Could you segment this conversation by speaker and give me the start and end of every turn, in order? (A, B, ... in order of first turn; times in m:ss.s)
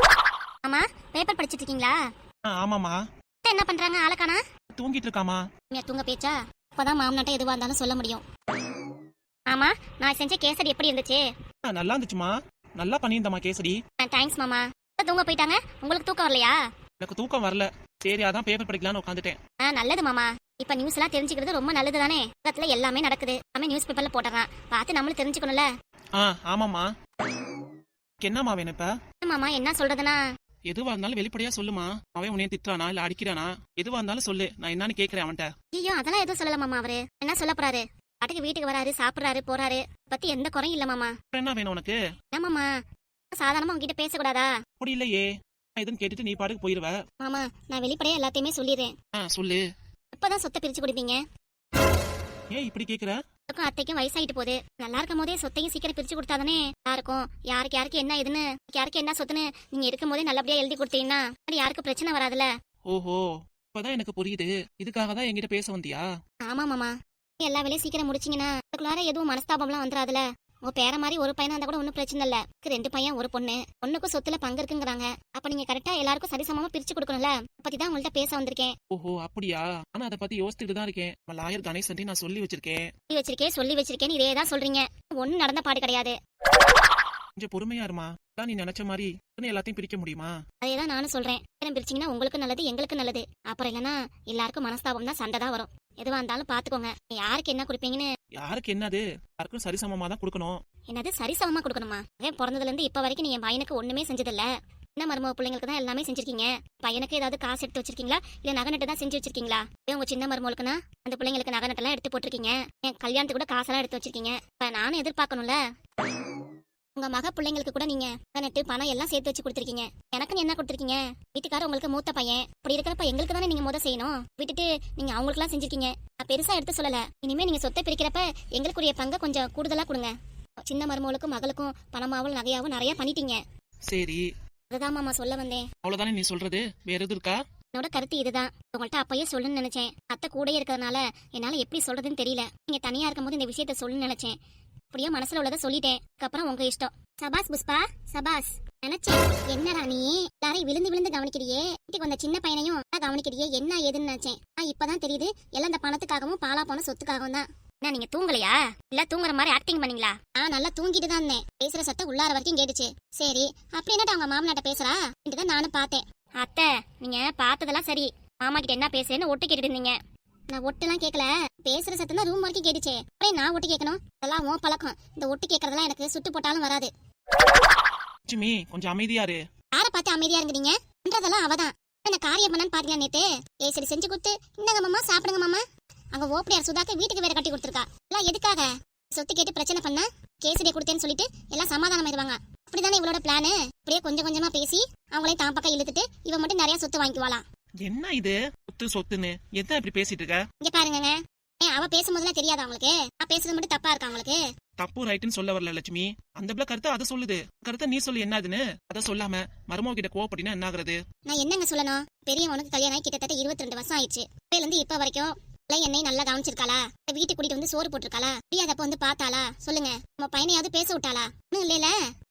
0:00.6-0:02.0 A
0:02.5-0:03.0 B
0:03.4-0:04.4 A
0:04.8-0:05.4 B
0:05.7-0:08.2 A
0:09.5-0:11.2 A
0:11.6-0:13.8 B
0:14.0-0:16.6 A
0:17.0-0:19.4 B
0:19.6-0:25.7 A
0:26.2-0:26.9 B
0:28.2-0:28.9 B
0:29.2-0:30.2 A
0:30.7-0:35.5 B
0:35.7-0:41.1 A
0:41.3-0:42.0 B
0:42.3-0:42.7 A
0:43.4-0:44.5 A
0:44.8-0:45.3 B
0:45.8-0:47.0 B
0:47.2-0:48.9 A
0:49.2-0:49.6 B
0:50.1-0:51.2 A
0:52.5-0:53.2 B
0:53.5-1:02.5 A
1:02.9-1:03.2 B
1:03.7-1:06.0 B
1:06.5-1:18.7 A
1:18.9-1:22.8 B
1:23.1-1:26.2 A
1:27.4-1:30.3 B
1:30.6-1:38.0 A
1:38.4-1:40.6 B
1:40.9-1:55.6 A
1:57.0-2:10.1 A
2:10.7-2:13.4 A
2:13.9-2:14.2 B
2:14.7-2:15.7 A
2:15.8-2:17.4 B
2:17.7-2:24.4 A
2:24.9-2:50.0 A
2:50.5-2:56.9 A
2:58.3-2:59.4 B
2:59.7-3:17.4 A
3:17.8-3:20.4 B
3:20.6-3:24.4 A
3:24.8-3:31.0 B
3:31.3-3:41.9 A